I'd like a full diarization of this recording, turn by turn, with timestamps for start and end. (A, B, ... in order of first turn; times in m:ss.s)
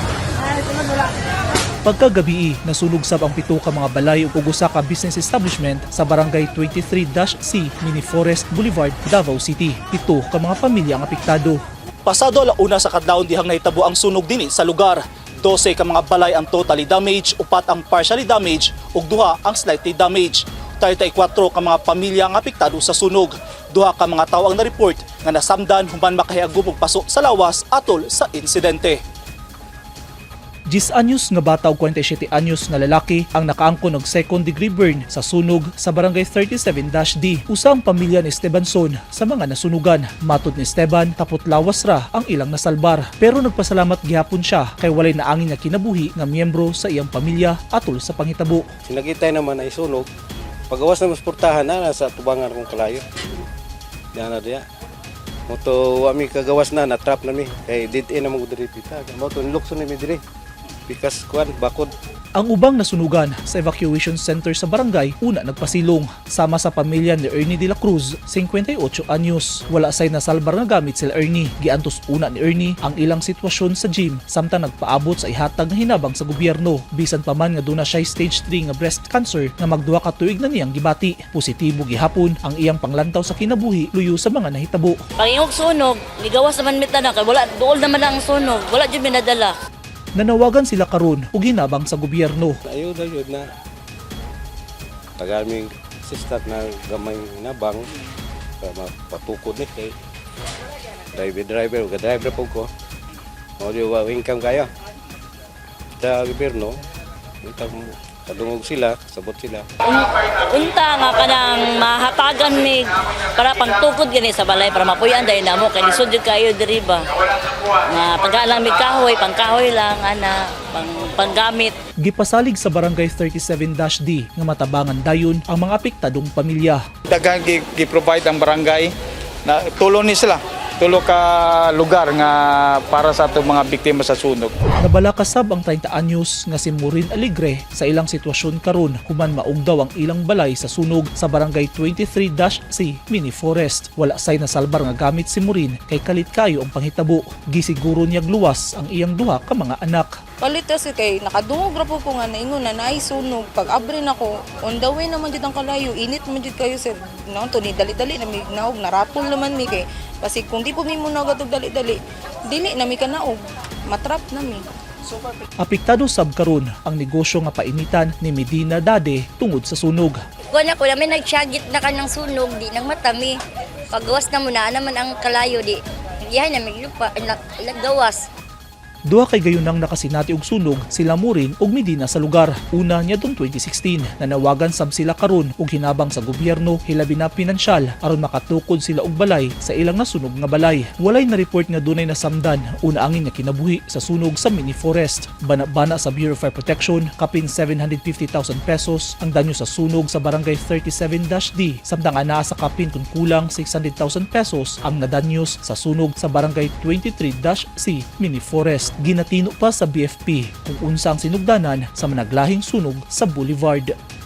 0:01.8-0:29.0 A
0:30.7-0:48.7 A
0:48.9-0:50.1 B
0:50.7-0:53.0 B
0:54.1-0:54.6 B
0:55.5-1:00.2 B
1:00.9-1:01.9 B
1:02.4-1:25.0 A
1:25.2-1:29.5 C
1:30.2-1:32.6 A
1:32.7-1:33.4 B
1:35.2-1:37.9 B
1:38.6-1:40.0 B
1:41.2-1:42.7 B
1:43.6-1:44.7 B
1:46.0-1:46.8 B
1:47.4-1:49.6 B
1:49.9-1:52.8 C
1:53.4-1:57.0 C
1:57.9-2:01.7 C
2:02.0-2:06.8 A
2:07.1-2:14.6 D
2:14.8-2:30.1 A
2:30.4-2:42.0 E
2:42.5-2:43.4 E
2:43.9-2:44.6 E
2:45.6-2:50.2 A
2:50.5-2:53.4 F
2:53.9-2:58.2 F
2:59.1-3:33.9 A